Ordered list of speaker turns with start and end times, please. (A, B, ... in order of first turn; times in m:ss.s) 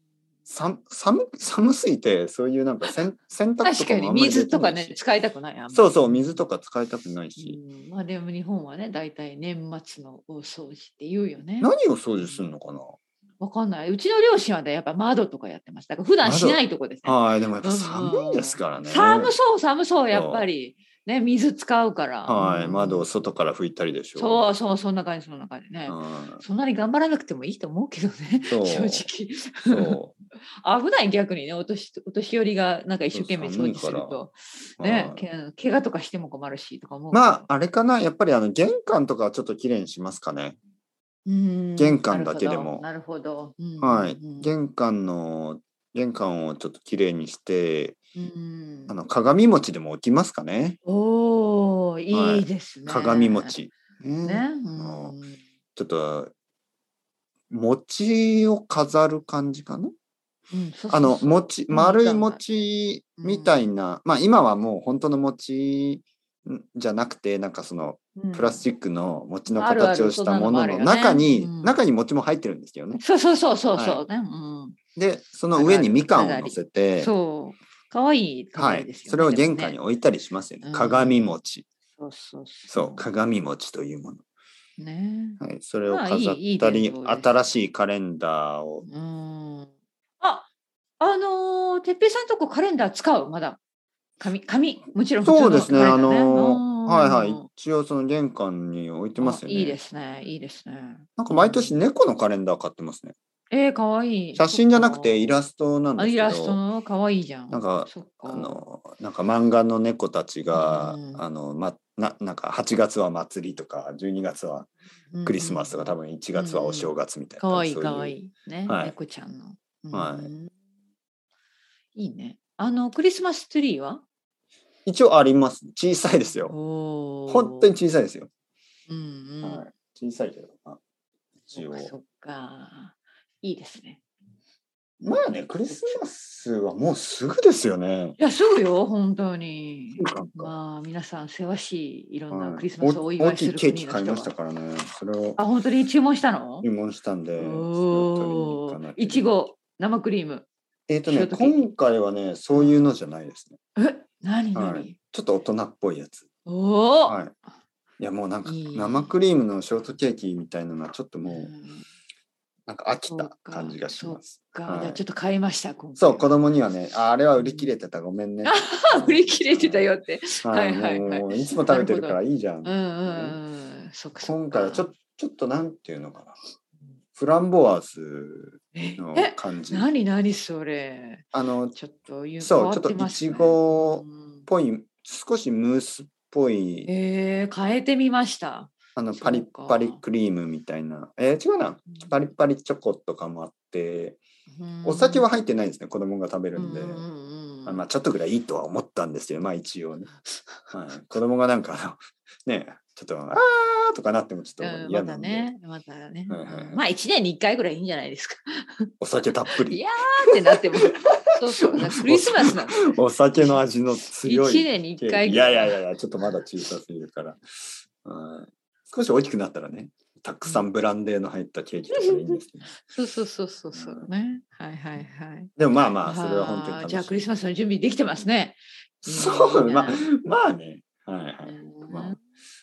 0:00.5-0:05.0 A
0:03.6-0:06.4 B
0:05.7-0:07.6 A
0:07.4-0:12.5 B
0:11.6-0:13.0 A
0:13.4-0:23.1 B
0:16.2-0:19.4 A
0:20.1-0:20.5 A
0:22.3-0:24.4 A
0:24.2-0:30.0 B
0:25.9-0:26.4 A
0:28.5-0:29.1 A
0:29.7-0:30.1 A
0:30.6-0:37.5 B
0:33.1-0:34.2 A
0:34.8-0:35.2 A
0:37.1-0:40.6 A
0:41.2-0:44.5 B
0:41.8-0:42.8 A
0:43.8-0:48.0 A
0:48.1-0:48.9 B
0:48.9-0:50.8 A
0:50.8-0:53.5 B
0:52.1-0:55.2 A
0:54.2-0:55.4 B
0:55.8-0:56.3 A
0:57.5-0:59.9 A
1:00.5-1:02.4 B
1:00.9-1:13.0 A
1:03.2-1:03.6 B
1:08.2-1:08.6 B
1:09.5-1:11.8 B
1:13.0-1:14.8 B
1:13.7-1:14.0 A
1:15.0-1:17.1 A
1:15.5-1:19.8 B
1:18.5-1:21.6 A
1:20.6-1:21.4 B
1:22.0-1:23.0 B
1:22.7-1:24.2 A
1:24.8-1:27.3 B
1:25.4-1:28.8 A
1:28.8-1:30.5 B
1:31.0-1:33.6 B
1:34.2-1:37.4 B
1:35.2-1:39.8 A
1:39.2-1:41.8 B
1:41.2-1:43.1 A
1:43.5-1:45.4 B
1:44.3-1:46.6 A
1:46.0-1:48.6 B
1:47.5-1:54.7 A
1:50.5-1:51.2 B
1:55.1-2:00.5 B
1:55.2-1:58.9 A
1:59.9-2:00.3 A
2:01.9-2:04.0 B
2:04.8-2:06.5 A
2:06.5-2:07.7 B
2:07.3-2:08.3 A
2:08.9-2:09.6 B
2:09.4-2:10.8 A
2:11.5-2:11.9 A
2:11.5-2:14.0 B
2:15.0-2:18.2 A
2:18.2-2:24.3 B
2:20.0-2:20.6 A
2:22.3-2:25.4 A
2:25.4-2:26.7 B
2:26.6-2:29.4 A
2:27.4-2:30.5 B
2:30.9-2:33.6 A
2:31.0-2:31.6 B
2:32.5-2:32.9 B
2:33.8-2:34.9 B
2:34.5-2:36.3 A
2:36.4-2:37.2 B
2:37.0-2:37.3 A
2:38.0-2:41.5 A
2:38.4-2:39.1 B
2:41.2-2:41.8 B
2:42.7-2:45.0 A
2:43.1-2:46.3 B
2:46.0-2:49.9 A
2:47.4-2:47.7 B
2:48.4-2:54.9 B
2:50.4-2:53.4 A
2:54.2-2:56.4 A
2:57.2-2:59.9 A
2:58.7-3:04.5 B
3:01.3-3:01.8 A
3:02.4-3:06.9 A
3:06.9-3:10.0 B
3:09.0-3:14.2 A
3:14.5-3:15.3 B
3:14.8-3:17.0 A
3:16.6-3:17.8 B
3:17.6-3:20.1 A
3:20.7-3:25.5 A
3:24.6-3:28.9 B
3:26.3-3:26.8 A
3:29.0-3:29.8 A
3:29.5-3:33.6 B
3:31.0-3:42.8 A
3:34.2-3:35.8 B
3:41.9-3:45.5 B
3:43.7-3:44.1 A
3:45.6-3:47.3 A
3:46.0-3:50.1 B
3:49.0-3:52.2 A
3:51.4-3:52.2 B